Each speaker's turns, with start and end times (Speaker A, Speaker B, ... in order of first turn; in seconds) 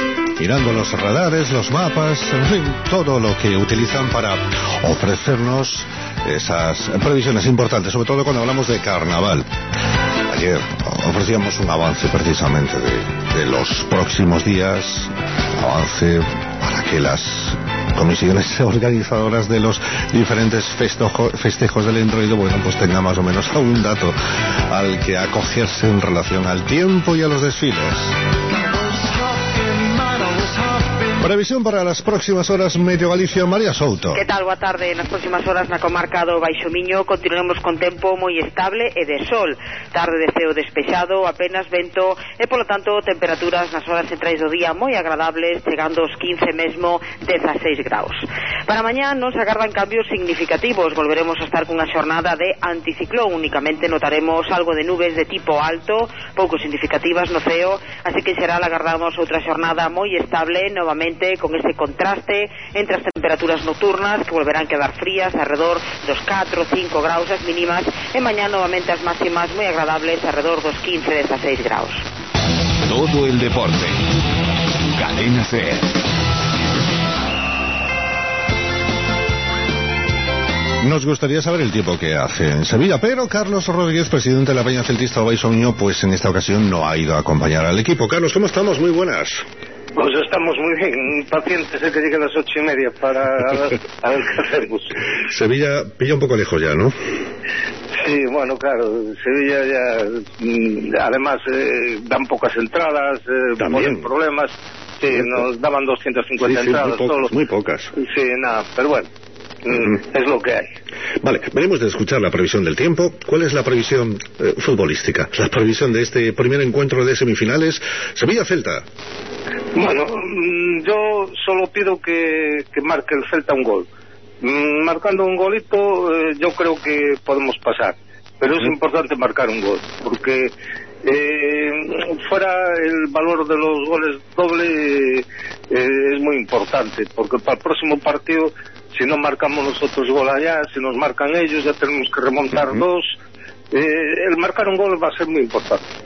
Speaker A: 0.4-9.5, 10.3-24.1, 24.7-28.1, 31.2-34.2, 80.8-89.5, 95.1-96.9, 103.6-104.1, 105.1-105.5, 106.4-107.9, 111.2-118.8
Speaker B: 34.1-72.0
Speaker C: 72.9-74.0, 75.0-75.9
Speaker D: 89.9-94.9, 97.9-107.3, 108.0-109.1, 109.6-110.7, 119.7-123.9, 124.4-130.5, 131.0-143.1, 143.7-145.8